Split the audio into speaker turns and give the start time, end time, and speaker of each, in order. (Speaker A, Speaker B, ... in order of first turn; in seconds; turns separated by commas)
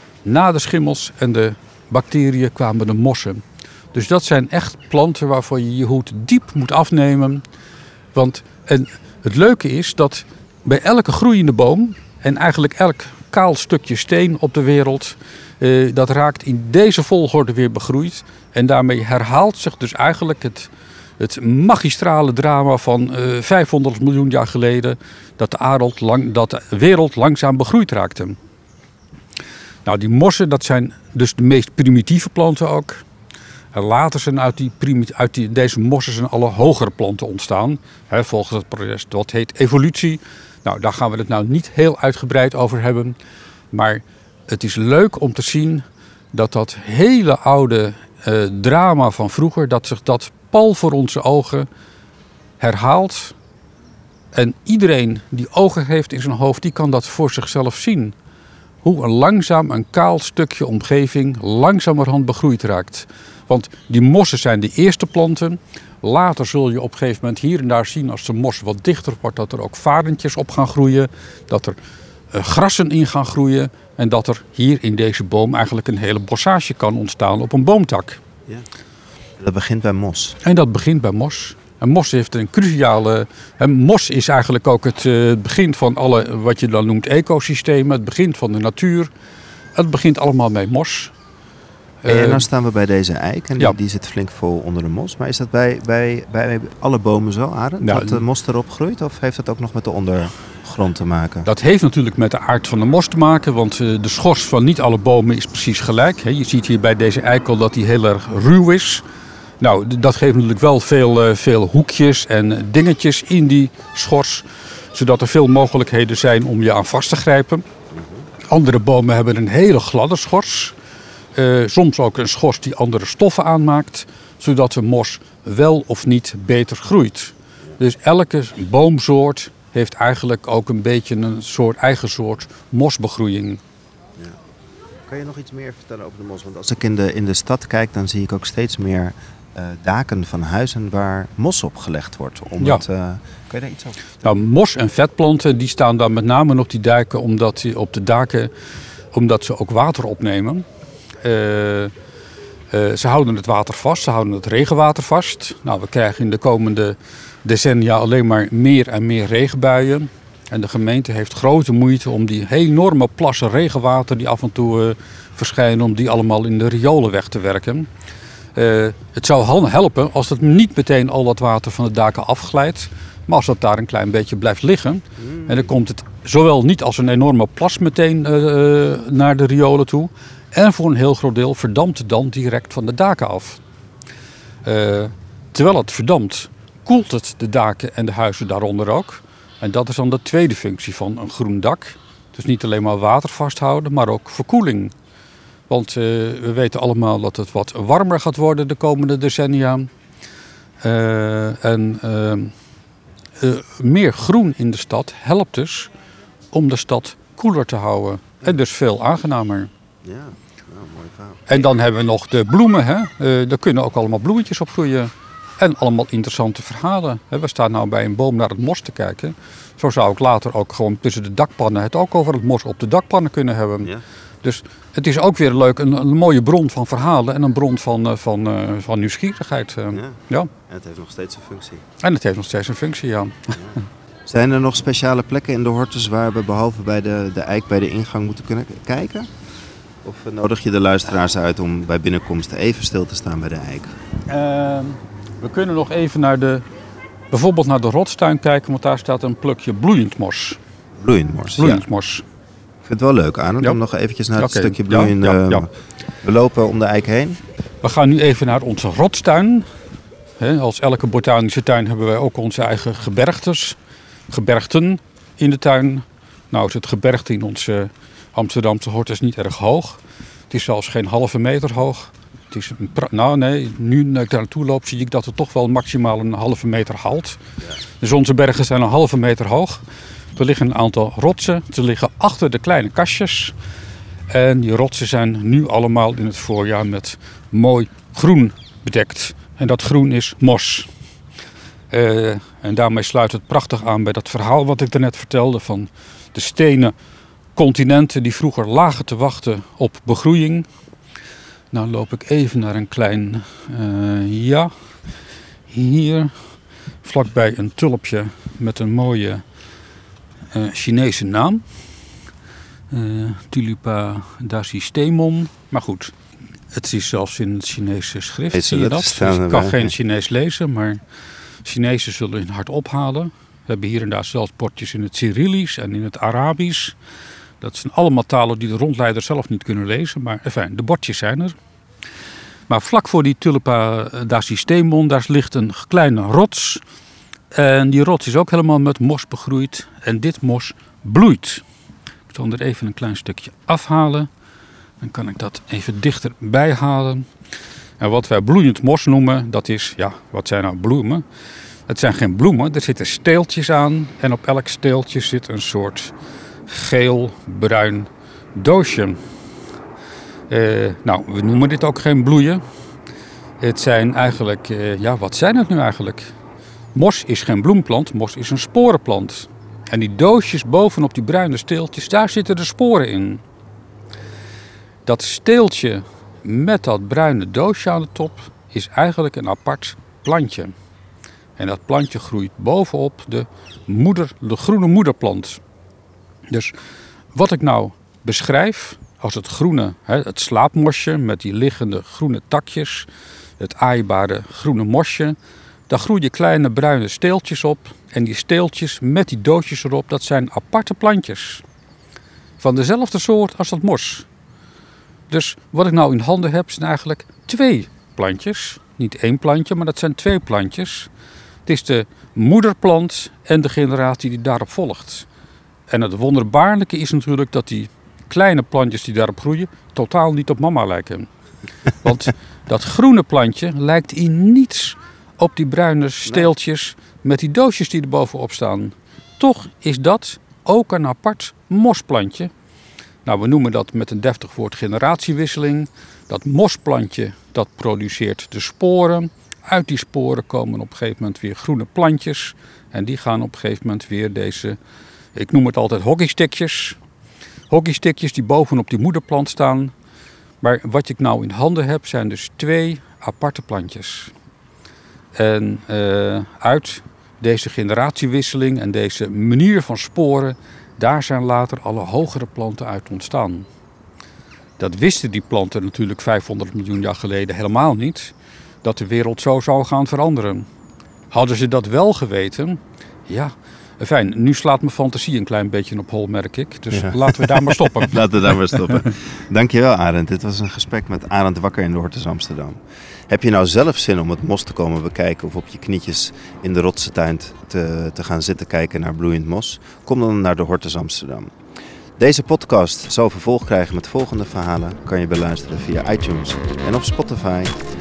Speaker A: 0.2-7.4, Speaker A: 8.1-28.4, Speaker A: 29.9-33.0, Speaker A: 33.7-43.2, Speaker A: 43.7-51.7, Speaker A: 52.6-53.4, Speaker A: 54.3-58.1, Speaker A: 58.8-71.8, Speaker A: 72.3-78.2, Speaker B: 79.4-80.4, Speaker A: 80.4-89.1, Speaker A: 89.8-91.1, Speaker A: 92.0-92.5, Speaker B: 92.1-101.5, Speaker A: 97.8-98.2, Speaker A: 101.5-109.0, Speaker A: 109.6-117.7, Speaker A: 118.5-120.8, Speaker A: 121.3-133.6, Speaker B: 135.1-144.2, Speaker A: 144.2-148.5, Speaker A: 149.1-150.7, Speaker A: 151.2-151.9, Speaker A: 152.7-167.9, Speaker A: 168.6-183.6, Speaker B: 175.4-175.6, Speaker A: 184.6-194.9, Speaker A: 195.7-199.9, Speaker A: 200.8-202.5, Speaker A: 203.4-205.9, Speaker A: 206.5-209.7, Speaker B: 210.0-211.7, Speaker A: 211.5-230.5, Speaker B: 229.9-231.8, Speaker A: 232.0-233.7, Speaker B: 234.3-239.3, Speaker B: 240.0-243.9, Speaker A: 244.2-246.7, Speaker A: 247.3-250.6, Speaker B: 251.0-251.9, Speaker A: 251.6-252.2, Speaker B: 252.8-255.7, Speaker A: 254.4-255.7, Speaker B: 256.2-257.4, Speaker A: 257.8-259.6, Speaker A: 260.4-263.8, Speaker A: 264.3-277.4, Speaker A: 278.0-283.6, Speaker A: 284.3-290.9, Speaker A: 291.9-296.9, Speaker A: 297.6-300.7, Speaker A: 301.7-304.7, Speaker A: 305.7-306.3, Speaker A: 307.0-309.4, Speaker A: 310.5-311.6, Speaker A: 312.9-316.1, Speaker A: 316.7-321.0, Speaker B: 318.5-319.9, Speaker A: 321.6-327.0, Speaker A: 327.6-331.6, Speaker A: 332.7-336.8, Speaker A: 337.5-341.6, Speaker A: 342.3-344.3, Speaker A: 345.0-347.3, Speaker A: 348.0-351.2, Speaker A: 351.9-356.1, Speaker A: 356.7-359.2, Speaker A: 360.5-362.6, Speaker A: 363.6-366.3, Speaker A: 366.9-373.4, Speaker A: 375.1-380.7, Speaker A: 381.6-385.6, Speaker A: 386.5-386.8, Speaker A: 387.3-395.4, Speaker A: 395.9-401.6, Speaker A: 402.6-404.3, Speaker A: 405.3-411.1, Speaker A: 411.7-415.3, Speaker A: 415.9-421.3, Speaker A: 422.0-432.5, Speaker A: 433.2-444.8, Speaker A: 445.4-447.0, Speaker A: 447.7-449.9, Speaker A: 450.6-454.3, Speaker A: 455.3-463.7, Speaker A: 464.8-470.7, Speaker A: 471.3-478.2, Speaker B: 476.9-491.5, Speaker B: 492.2-497.8